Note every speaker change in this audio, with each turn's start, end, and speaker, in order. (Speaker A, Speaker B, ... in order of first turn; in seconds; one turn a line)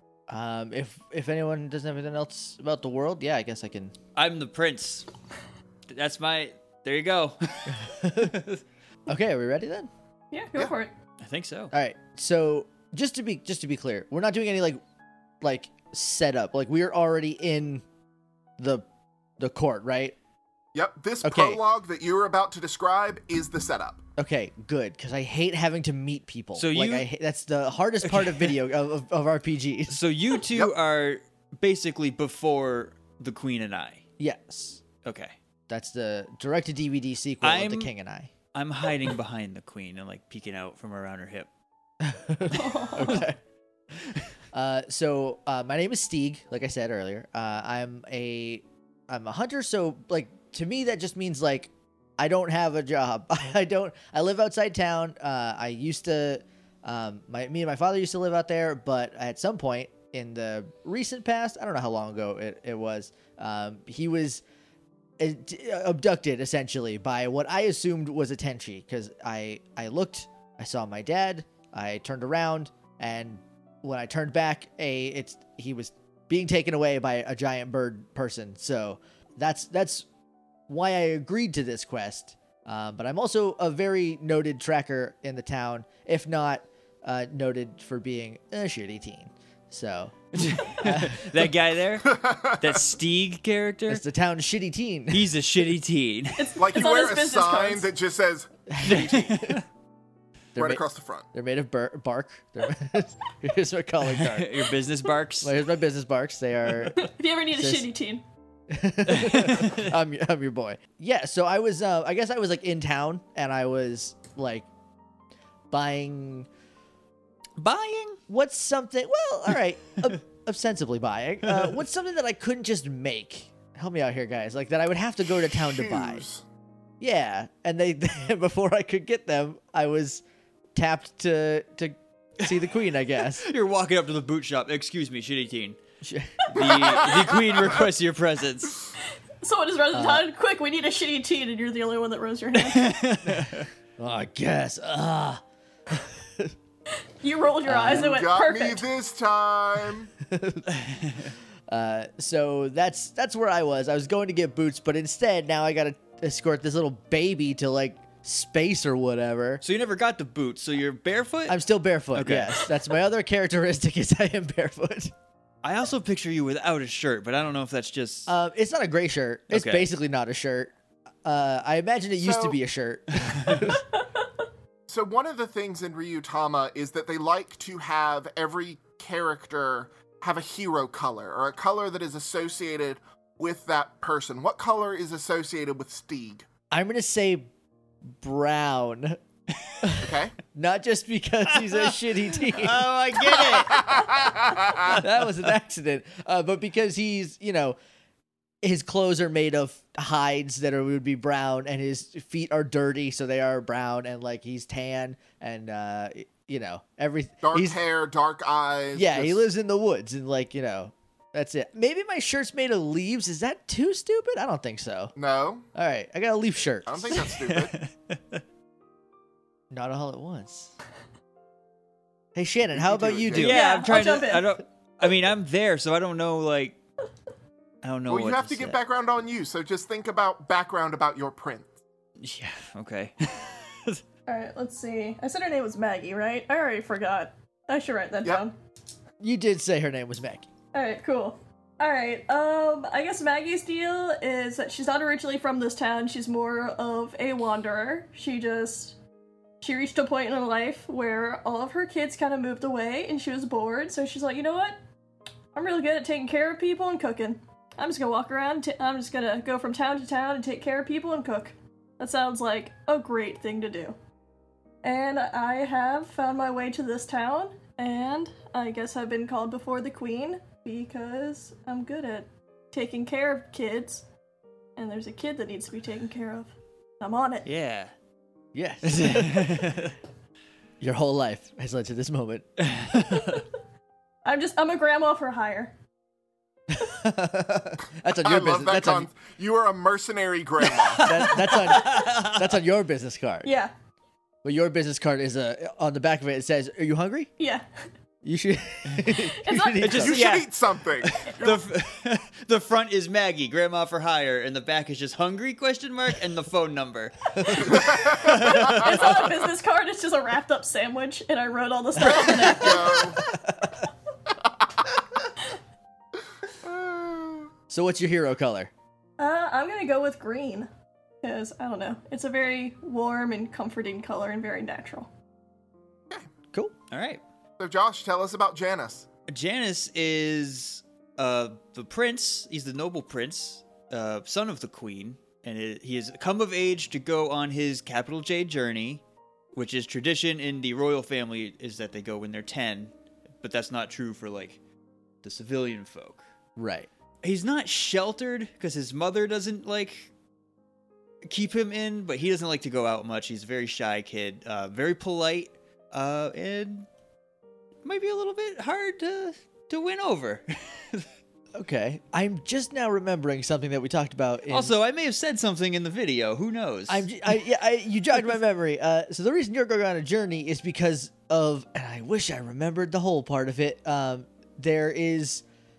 Speaker A: 0.3-4.0
Speaker B: 4.2-5.1
Speaker B: 5.9-8.6
Speaker A: 7.7-8.4
Speaker A: 9.1-9.9
Speaker C: 10.3-10.9
Speaker B: 11.2-11.7
Speaker A: 11.7-14.8
Speaker A: 15.4-17.8
Speaker A: 18.6-18.9
Speaker A: 19.4-20.2
Speaker D: 20.7-24.0
Speaker A: 21.2-21.6
Speaker A: 24.2-30.0
Speaker B: 26.6-27.1
Speaker B: 28.0-28.6
Speaker B: 29.9-34.0
Speaker A: 34.2-34.8
Speaker B: 35.0-35.4
Speaker A: 35.7-38.3
Speaker B: 37.4-37.9
Speaker B: 38.5-41.5
Speaker A: 42.0-43.4
Speaker C: 42.5-43.3
Speaker A: 44.5-64.4
Speaker A: 65.2-80.1
Speaker A: 80.7-91.5
Speaker B: 90.3-94.0
Speaker D: 92.1-92.8
Speaker A: 93.9-95.3
Speaker B: 95.1-96.5
Speaker C: 96.4-97.9
Speaker D: 96.6-99.5
Speaker A: 98.7-99.6
Speaker B: 98.8-99.6
Speaker A: 100.5-100.8
Speaker D: 100.6-101.3
Speaker A: 101.3-104.6
Speaker B: 104.1-105.5
Speaker A: 105.4-107.0
Speaker C: 106.9-108.2
Speaker A: 107.6-107.9
Speaker A: 108.7-114.7
Speaker B: 109.1-109.9
Speaker A: 115.7-116.5
Speaker B: 117.6-118.2
Speaker A: 118.3-126.2
Speaker D: 125.3-126.5
Speaker A: 127.0-130.2
Speaker A: 130.8-133.4
Speaker B: 133.2-135.8
Speaker A: 136.0-137.1
Speaker B: 136.5-138.9
Speaker C: 139.4-143.0
Speaker A: 139.9-140.2
Speaker B: 142.6-143.7
Speaker A: 144.0-146.5
Speaker C: 147.2-148.8
Speaker A: 147.6-148.2
Speaker D: 147.9-150.1
Speaker A: 150.2-150.7
Speaker B: 150.8-151.3
Speaker A: 151.7-159.6
Speaker B: 159.6-161.6
Speaker A: 161.5-165.1
Speaker B: 162.1-162.7
Speaker B: 165.6-168.3
Speaker A: 168.3-170.7
Speaker B: 169.5-169.9
Speaker A: 171.2-173.8
Speaker D: 172.2-172.6
Speaker B: 173.2-173.7
Speaker D: 174.9-186.5
Speaker A: 186.7-187.5
Speaker A: 188.2-189.2
Speaker A: 189.8-193.8
Speaker D: 190.0-190.4
Speaker B: 191.5-194.0
Speaker D: 193.6-195.0
Speaker A: 194.8-197.8
Speaker A: 198.6-207.8
Speaker D: 207.4-209.5
Speaker A: 208.9-215.1
Speaker D: 215.2-215.7
Speaker A: 215.8-217.3
Speaker D: 216.9-217.7
Speaker B: 217.5-218.4
Speaker A: 219.7-220.7
Speaker A: 222.3-223.6
Speaker D: 222.7-223.6
Speaker B: 223.3-226.8
Speaker C: 223.4-224.5
Speaker B: 227.8-228.8
Speaker D: 228.1-231.7
Speaker B: 232.2-234.0
Speaker C: 234.3-238.6
Speaker A: 239.2-240.5
Speaker C: 240.7-249.0
Speaker C: 249.6-254.8
Speaker C: 255.5-264.0
Speaker C: 264.8-274.1
Speaker C: 274.8-277.5
Speaker B: 277.4-277.9
Speaker A: 278.5-279.8
Speaker B: 278.9-279.9
Speaker A: 280.8-282.5
Speaker B: 282.6-283.4
Speaker C: 284.2-285.8
Speaker A: 286.7-289.1
Speaker D: 288.0-291.1
Speaker B: 290.8-292.6
Speaker A: 291.0-293.5
Speaker C: 293.4-293.7
Speaker A: 294.4-297.3
Speaker C: 297.4-297.8
Speaker A: 298.2-300.2
Speaker C: 299.1-299.9
Speaker B: 299.8-309.2
Speaker D: 300.0-301.6
Speaker A: 307.4-307.7
Speaker D: 307.6-309.0
Speaker C: 308.5-313.1
Speaker D: 312.0-313.2
Speaker A: 312.1-313.9
Speaker D: 316.6-317.5
Speaker A: 317.7-318.7
Speaker C: 319.2-320.7
Speaker C: 321.2-325.1
Speaker B: 326.9-327.2
Speaker D: 327.6-329.1
Speaker B: 329.3-339.0
Speaker B: 339.6-344.6
Speaker B: 345.2-346.2
Speaker A: 346.6-346.9
Speaker B: 347.2-350.1
Speaker B: 351.3-356.9
Speaker B: 357.9-361.1
Speaker A: 361.6-364.7
Speaker B: 364.5-367.4
Speaker A: 366.9-375.4